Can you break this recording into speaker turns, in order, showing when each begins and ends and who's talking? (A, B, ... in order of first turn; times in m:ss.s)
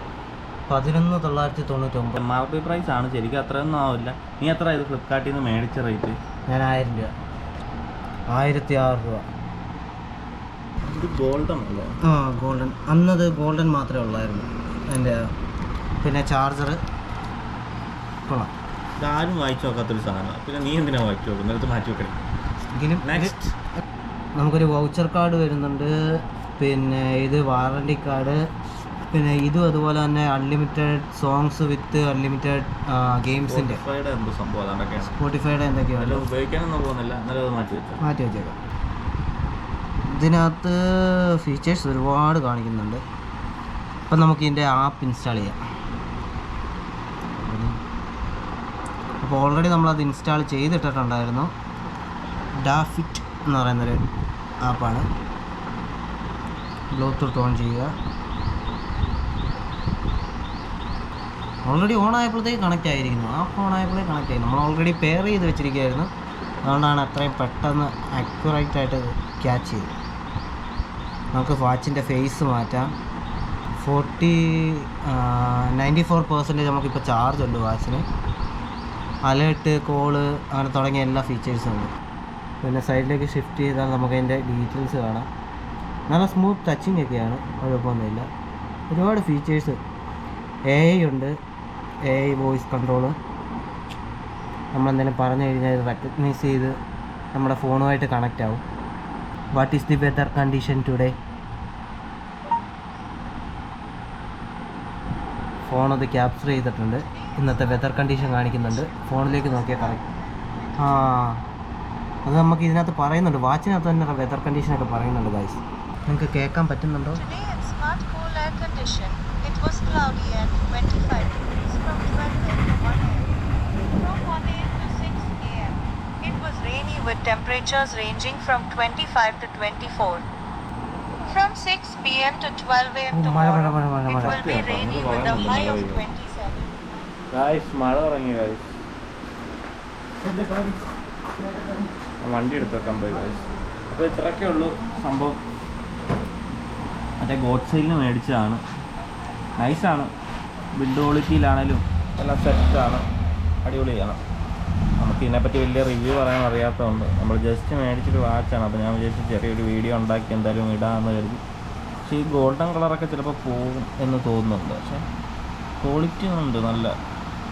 0:00.7-0:02.2 A
0:02.2-0:06.2 B
0:06.5-0:07.1 A
0:08.3-0:09.3 A
0:10.8-0:11.9 B
0:12.0-0:15.2 A
0:16.0-0:16.8 A
0:18.3-0:18.5 A
0:19.0-0:22.2 B
0:22.8-0:23.4 A
0:23.0-0:23.6 B
0:24.4-0:25.9 A
0:26.6-0:28.4 A
0:29.1-0:33.8 A
0:33.5-0:35.2 B
0:35.0-0:36.2 A
0:36.0-0:38.0 B
0:38.0-0:38.6 A
0:40.1-0:43.0 A
0:44.1-0:45.6 A
0:47.4-0:47.8 A
0:49.2-0:51.5 A
0:52.6-0:54.0 A
0:54.6-0:55.1 A
0:56.9-0:57.9 A
1:01.6-1:06.1 A
1:06.6-1:09.9 A
1:11.3-1:12.9 A
1:13.8-1:18.1 A
1:19.2-1:21.9 A
1:22.6-1:25.3 A
1:26.1-1:28.3 A
1:28.9-1:29.8 A
1:30.7-1:31.3 A
1:32.1-1:33.2 A
1:34.7-1:36.8 A
1:37.3-1:38.6 A
1:39.5-1:41.2 A
1:45.6-1:50.0 A
1:47.3-1:50.1 C
1:50.8-1:51.4 A
1:52.2-1:57.2 A
1:57.1-2:10.2 C
2:11.3-2:16.8 C
2:13.1-2:14.5 A
2:14.2-2:16.1 B
2:17.3-2:18.7 B
2:20.3-2:20.7 B
2:22.2-2:25.4 B
2:27.2-2:28.6 B
2:29.6-2:30.1 B
2:30.8-2:33.0 B
2:33.6-2:34.2 B
2:35.0-2:41.4 B
2:42.1-2:45.0 B
2:45.8-2:47.0 B